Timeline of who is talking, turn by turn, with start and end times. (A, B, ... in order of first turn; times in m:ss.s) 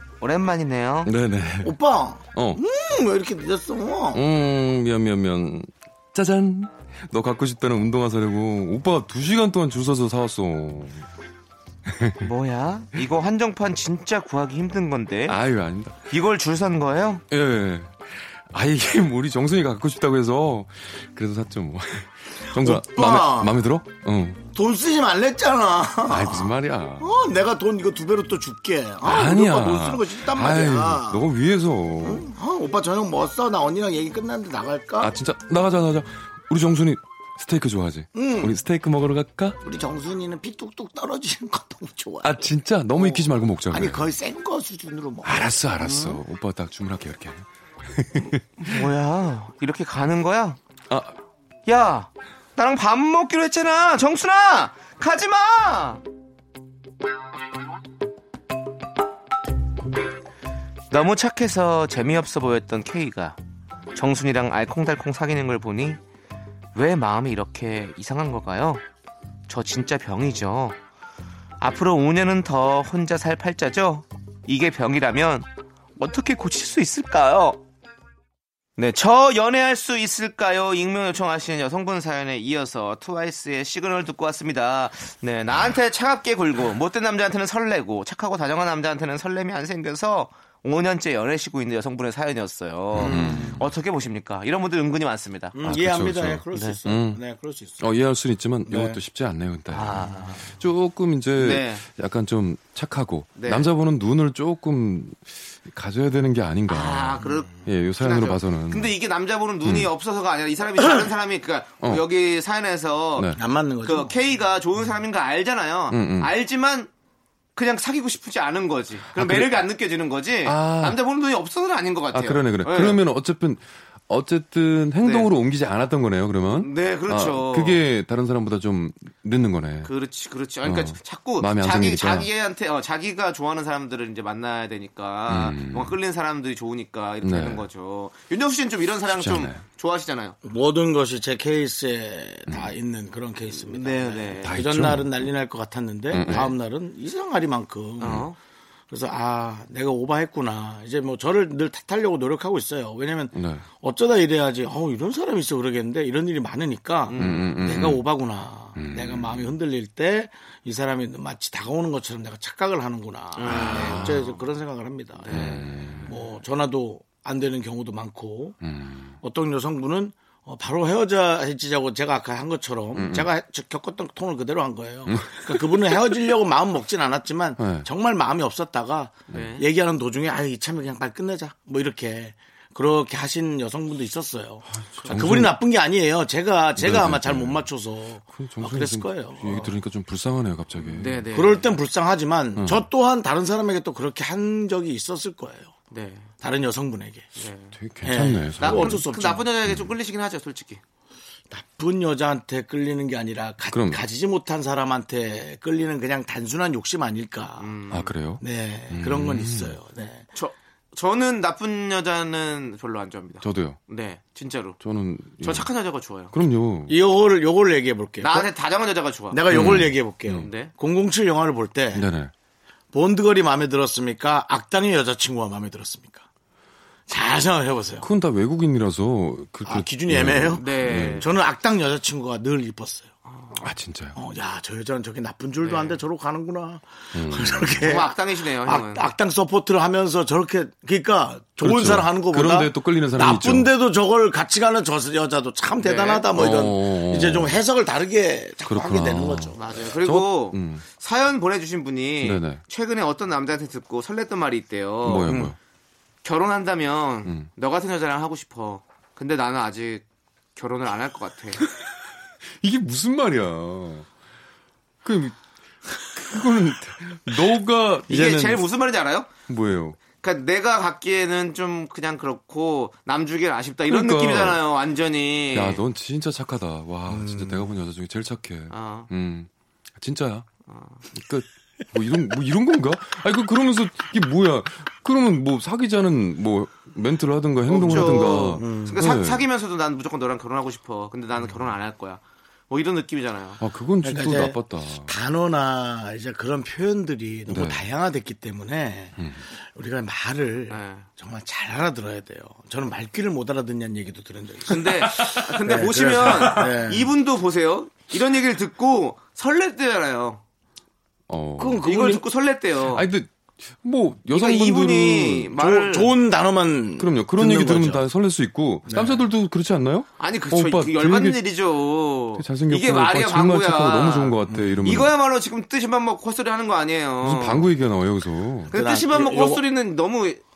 0:00.2-0:01.1 A
0:01.0-0:01.7 B
0:01.6-0:04.2 C
0:02.3-0:02.6 B
0:04.1-0:11.0 B
0:11.9-0:12.2 B
0:12.2-0:15.4 A
0:15.3-0:16.1 B
0:16.1-0:17.2 A
0:17.3-0:24.4 B
0:22.5-0:23.6 C
0:24.5-0:31.2 C
0:26.1-0:27.2 B
0:29.0-0:32.2 B
0:32.0-0:35.1 C
0:35.0-0:39.6 B
0:38.1-0:38.6 C
0:39.6-0:46.2 C
0:42.2-0:44.0 B
0:45.2-0:48.8 B
0:48.6-0:50.6 A
0:50.9-0:51.2 B
0:51.6-0:56.0 A
1:00.9-1:03.4 A
1:03.9-1:06.0 A
1:06.7-1:08.8 A
1:09.5-1:10.8 A
1:11.6-1:15.5 A
1:16.0-1:17.6 A
1:18.8-1:35.6 A
1:32.9-1:33.6 B
1:33.0-1:33.5 C
1:35.5-1:37.9 C
1:35.6-1:37.2 B
1:37.8-1:48.9 B
1:38.7-1:39.0 C
1:39.7-1:40.4 A
1:41.4-1:41.8 A
1:43.4-1:43.7 A
1:46.7-1:53.3 A
1:49.6-1:49.9 B
1:53.4-1:54.1 C
1:53.8-1:56.9 A
1:55.9-1:56.3 B
1:57.6-2:03.0 A
1:59.1-1:59.6 B
2:00.4-2:01.0 B
2:02.1-2:09.9 B
2:05.0-2:05.3 A
2:06.5-2:07.8 A
2:09.8-2:20.4 A
2:10.6-2:12.3 B
2:15.3-2:16.0 B
2:17.2-2:17.7 B
2:19.1-2:19.6 B
2:20.4-2:28.3 C
2:23.7-2:24.6 A
2:24.5-2:25.1 B
2:26.1-2:26.5 B
2:26.2-2:26.5 A
2:28.0-2:28.4 A
2:28.9-2:48.6 C
2:33.3-2:33.6 B
2:37.1-2:37.6 A
2:37.2-2:38.1 B
2:38.8-2:39.5 B
2:43.4-2:44.3 A
2:43.5-2:44.2 B
2:45.2-2:46.1 A
2:45.3-2:46.1 B
2:48.6-2:49.1 B
2:49.2-3:09.7 C
2:52.9-2:53.3 B
2:55.1-2:55.4 B
2:57.6-2:57.8 B
2:59.3-2:59.6 A
3:04.7-3:05.6 B
3:06.8-3:07.7 B
3:08.3-3:11.2 B
3:10.8-3:11.7 A
3:11.3-3:15.7 C
3:12.6-3:12.8 B
3:15.9-3:16.3 A
3:16.4-3:17.3 C
3:17.4-3:17.8 A
3:17.7-3:19.0 B
3:18.0-3:19.5 C
3:18.6-3:20.8 A
3:19.6-3:19.9 B
3:21.5-3:27.7 C
3:23.7-3:24.0 B
3:27.6-3:28.1 A
3:27.9-3:29.8 B
3:28.4-3:30.2 C
3:30.3-3:34.8 A
3:33.4-3:33.8 B
3:34.8-3:35.7 B
3:35.4-3:36.3 A
3:36.3-3:36.9 B
3:36.9-3:38.5 C
3:38.2-3:39.8 A
3:39.3-3:42.1 C
3:39.5-3:40.5 B
3:40.4-3:40.7 A
3:41.9-3:42.3 B
3:42.9-3:46.2 C
3:47.1-3:48.1 C
3:48.0-3:51.2 B
3:49.6-3:53.1 C
3:50.5-3:51.3 A
3:53.3-3:53.6 A
3:53.6-3:54.2 B
3:54.1-4:09.6 C
3:55.6-3:56.0 A
3:57.1-3:57.8 B
3:57.8-3:59.1 A
4:01.6-4:03.7 B
4:05.8-4:06.3 A
4:06.3-4:07.6 B
4:08.7-4:10.8 B
4:09.5-4:15.5 A
4:12.2-4:12.6 B
4:15.0-4:15.6 B
4:16.2-4:20.0 A
4:20.6-4:21.6 A
4:22.6-4:24.1 B
4:25.0-4:25.4 B
4:26.0-4:28.6 B
4:28.1-4:29.3 A
4:29.5-4:30.0 B
4:30.1-4:35.8 A
4:33.9-4:34.6 B
4:35.5-4:40.5 B
4:37.1-4:37.7 C
4:38.7-4:39.1 A
4:40.7-4:41.0 A
4:41.1-4:49.4 B
4:47.7-4:49.0 C
4:47.7-4:53.6 A
4:53.6-4:55.1 B
4:54.0-5:07.1 C
4:57.5-4:57.8 B
5:00.7-5:01.0 A
5:04.7-5:10.4 A
5:05.1-5:05.4 B
5:11.3-5:11.9 B
5:11.6-5:12.2 C
5:11.8-5:13.0 A
5:12.8-5:15.5 B
5:14.3-5:16.1 A
5:15.6-5:18.0 C
5:17.0-5:21.4 B
5:18.9-5:19.3 C
5:20.2-5:27.7 A
5:22.4-5:25.1 B
5:24.5-5:25.0 C
5:27.2-5:28.7 B
5:28.7-5:29.6 C
5:28.7-5:30.4 A